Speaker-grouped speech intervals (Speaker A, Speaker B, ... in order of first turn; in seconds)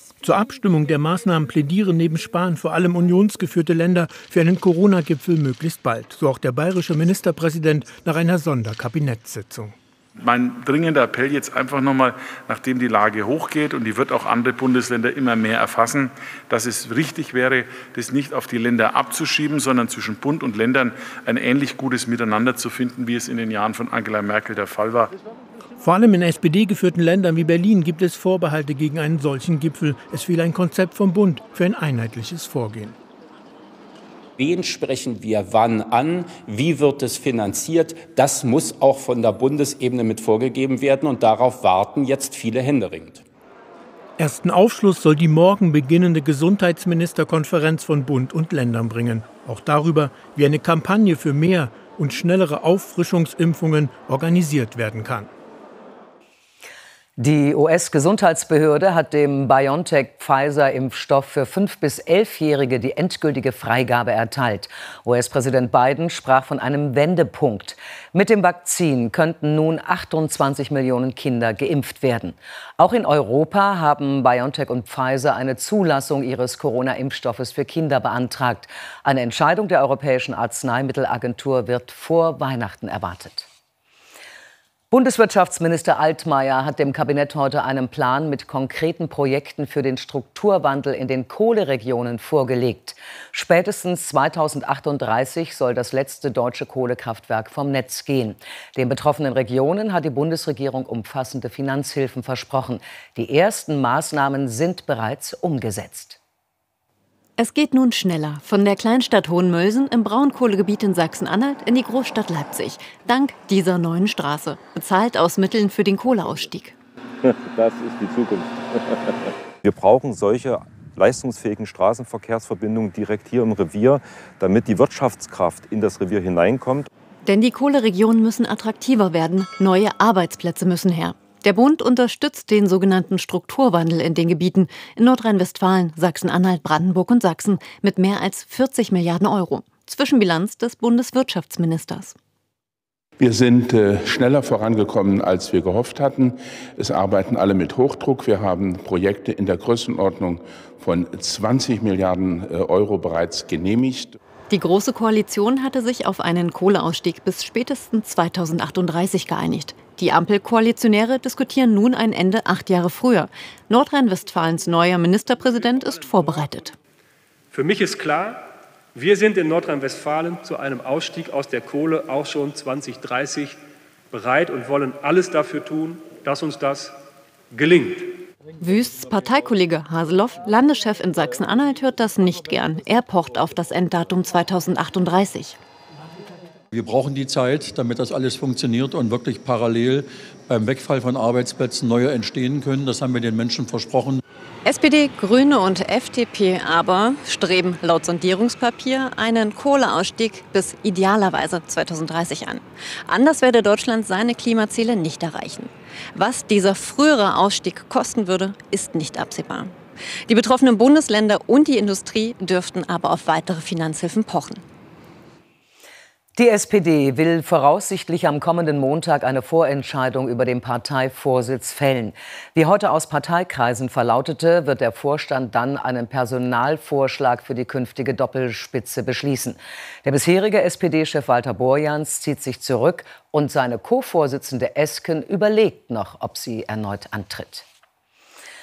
Speaker A: 0.2-9.8, 25.8-33.0, 44.2-55.3
Speaker B: 10.3-25.1
Speaker C: 34.4-43.2
Speaker D: 57.2-83.5, 84.9-106.2, 216.4-237.7
Speaker E: 107.4-116.8, 127.3-142.2, 154.5-166.8, 178.6-185.6, 194.7-209.8, 210.3-214.6
Speaker F: 117.2-118.8, 119.6-126.9
Speaker G: 143.2-154.2
Speaker H: 167.5-173.6, 174.1-177.0, 177.5-178.2
Speaker I: 186.7-194.2